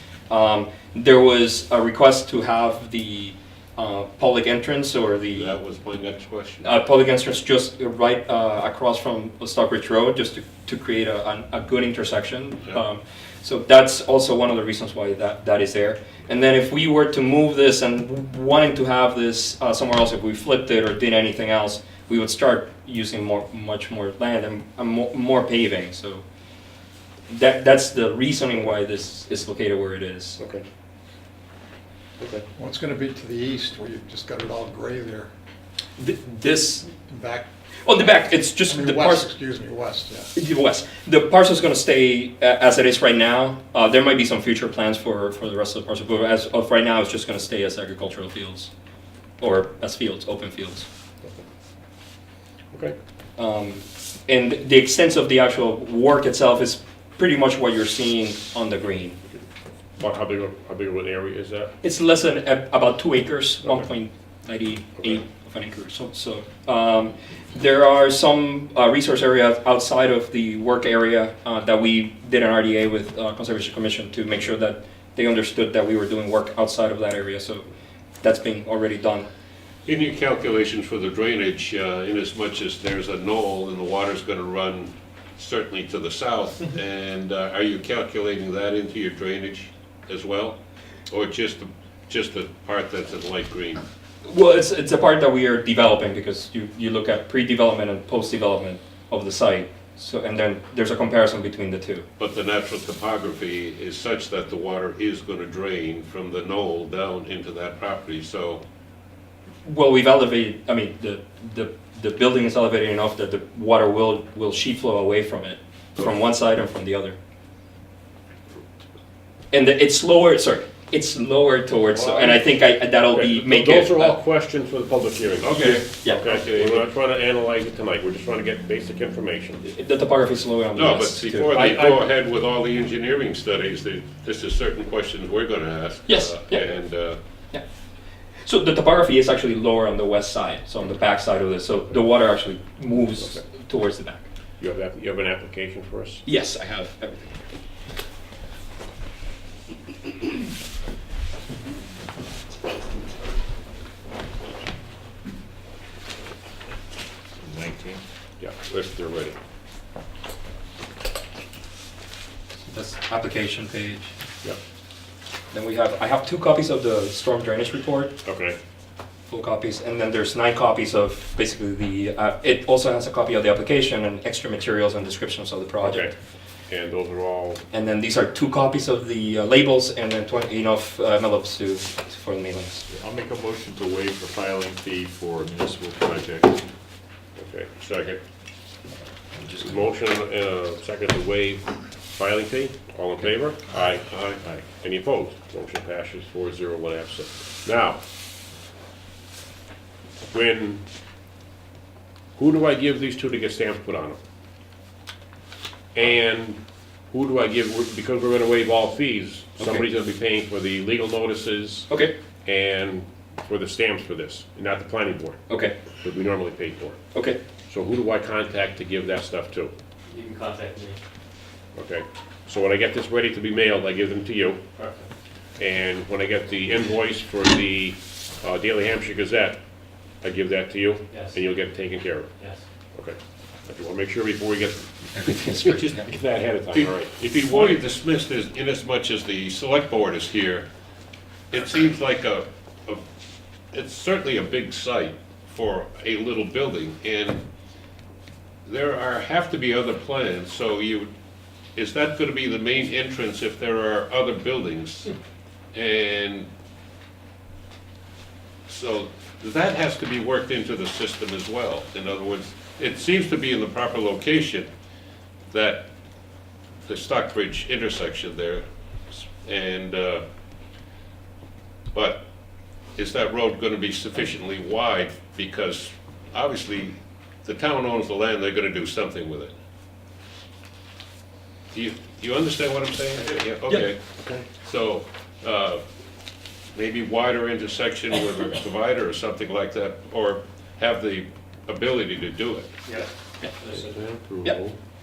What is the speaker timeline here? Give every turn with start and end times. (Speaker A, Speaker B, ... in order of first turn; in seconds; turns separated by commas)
Speaker A: 0.3-5.5, Speaker B: 5.3-6.7, Speaker A: 6.6-26.2, Speaker A: 27.3-30.4, Speaker C: 30.4-30.6, Speaker D: 32.6-35.3, Speaker A: 36.0-36.9, Speaker D: 37.1-37.5, Speaker A: 37.9-39.3, Speaker D: 38.6-40.3, Speaker A: 40.4-48.7, Speaker A: 49.4-50.9, Speaker A: 53.4-59.2, Speaker C: 60.0-61.7, Speaker A: 61.8-77.7, Speaker A: 78.2-79.3, Speaker B: 79.9-90.6, Speaker B: 91.1-93.8, Speaker A: 94.2-102.1, Speaker B: 102.2-108.6, Speaker A: 109.6-117.2, Speaker A: 119.5-124.2, Speaker C: 121.9-122.5, Speaker C: 123.1-129.6, Speaker B: 125.4-126.9, Speaker A: 125.6-126.2, Speaker A: 129.6-131.6, Speaker B: 130.7-137.2, Speaker C: 131.5-132.0, Speaker A: 136.1-136.7, Speaker A: 138.4-144.2, Speaker C: 144.6-146.2, Speaker A: 146.3-147.4, Speaker E: 157.4-158.0, Speaker C: 158.4-159.4, Speaker A: 162.6-164.1, Speaker A: 165.5-168.2, Speaker C: 168.2-168.6, Speaker A: 169.3-176.1, Speaker C: 175.8-176.1, Speaker C: 176.7-177.6, Speaker A: 177.7-182.8, Speaker E: 182.9-186.6, Speaker C: 187.4-188.2, Speaker E: 189.4-189.7, Speaker C: 189.6-194.1, Speaker B: 194.0-194.4, Speaker C: 194.6-198.0, Speaker C: 200.3-200.8, Speaker C: 202.4-204.2, Speaker C: 205.9-206.6, Speaker C: 207.1-215.4, Speaker A: 209.6-209.8, Speaker A: 211.9-212.1, Speaker A: 215.5-215.8, Speaker C: 216.0-217.0, Speaker A: 217.1-217.4, Speaker C: 217.7-219.7, Speaker F: 220.1-221.0, Speaker C: 221.8-224.6, Speaker F: 224.8-225.1, Speaker C: 225.6-229.6, Speaker C: 230.2-232.3, Speaker F: 231.1-231.4, Speaker C: 232.9-237.8, Speaker A: 235.1-236.1, Speaker B: 236.7-240.7, Speaker B: 241.5-243.0, Speaker B: 243.7-247.4, Speaker B: 248.7-251.1, Speaker B: 251.8-255.1, Speaker B: 255.7-256.5, Speaker B: 258.7-264.7, Speaker B: 265.5-265.9, Speaker B: 266.9-270.2, Speaker B: 271.9-272.2, Speaker B: 273.0-279.5, Speaker B: 281.7-284.0, Speaker B: 284.5-285.8, Speaker B: 286.7-292.7, Speaker F: 293.6-294.0, Speaker C: 293.6-294.2, Speaker E: 294.2-294.8